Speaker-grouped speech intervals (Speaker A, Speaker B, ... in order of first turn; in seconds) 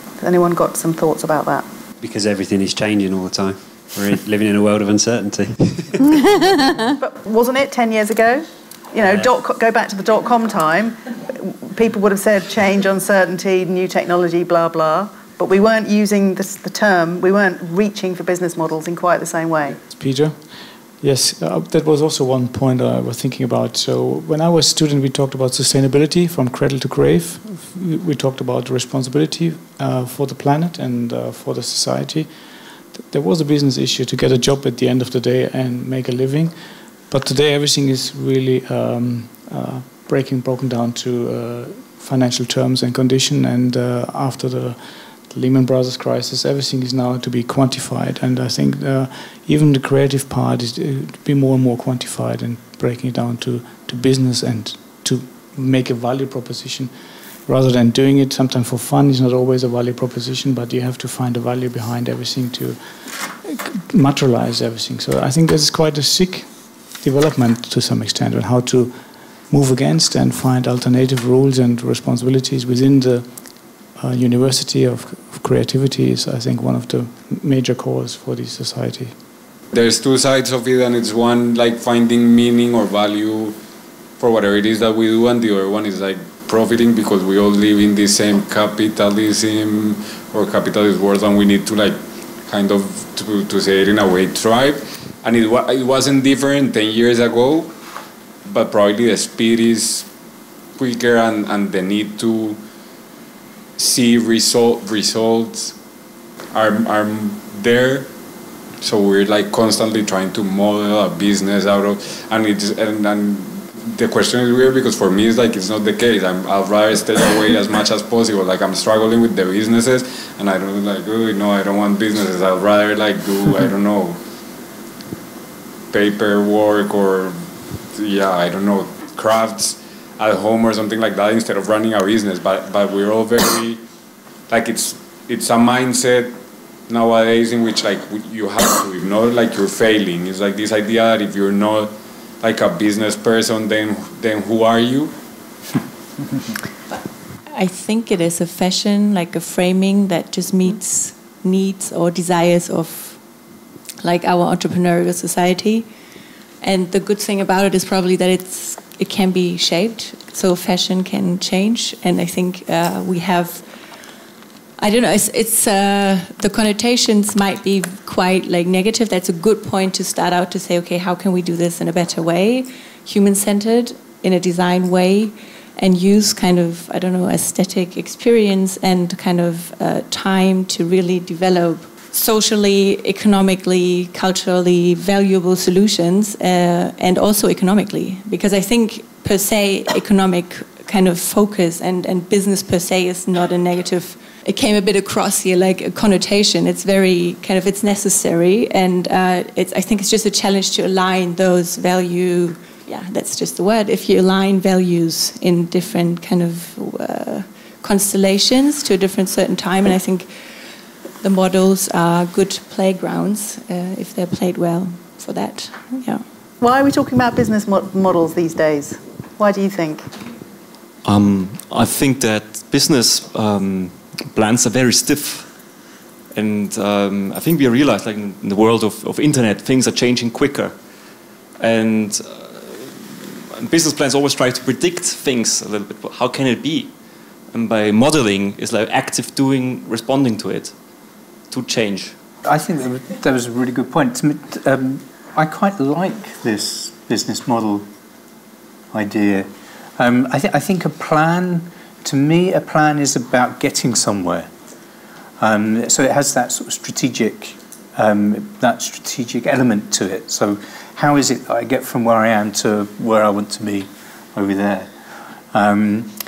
Speaker A: 0.2-1.7, 6.9-19.8, 216.6-220.1
Speaker B: 2.0-6.0, 9.0-9.3
Speaker C: 19.8-79.2
Speaker D: 79.7-83.6, 84.2-97.7, 98.4-100.1, 100.8-102.6, 103.8-105.8, 106.5-108.1, 108.8-124.2, 125.9-133.8, 134.5-136.4, 136.9-145.2
Speaker E: 146.9-153.4, 154.0-155.9, 156.6-163.7, 164.8-210.3, 211.2-216.3
Speaker F: 221.0-240.8, 241.5-242.2
Speaker G: 242.4-247.9, 248.9-254.5, 255.4-264.9, 265.5-266.1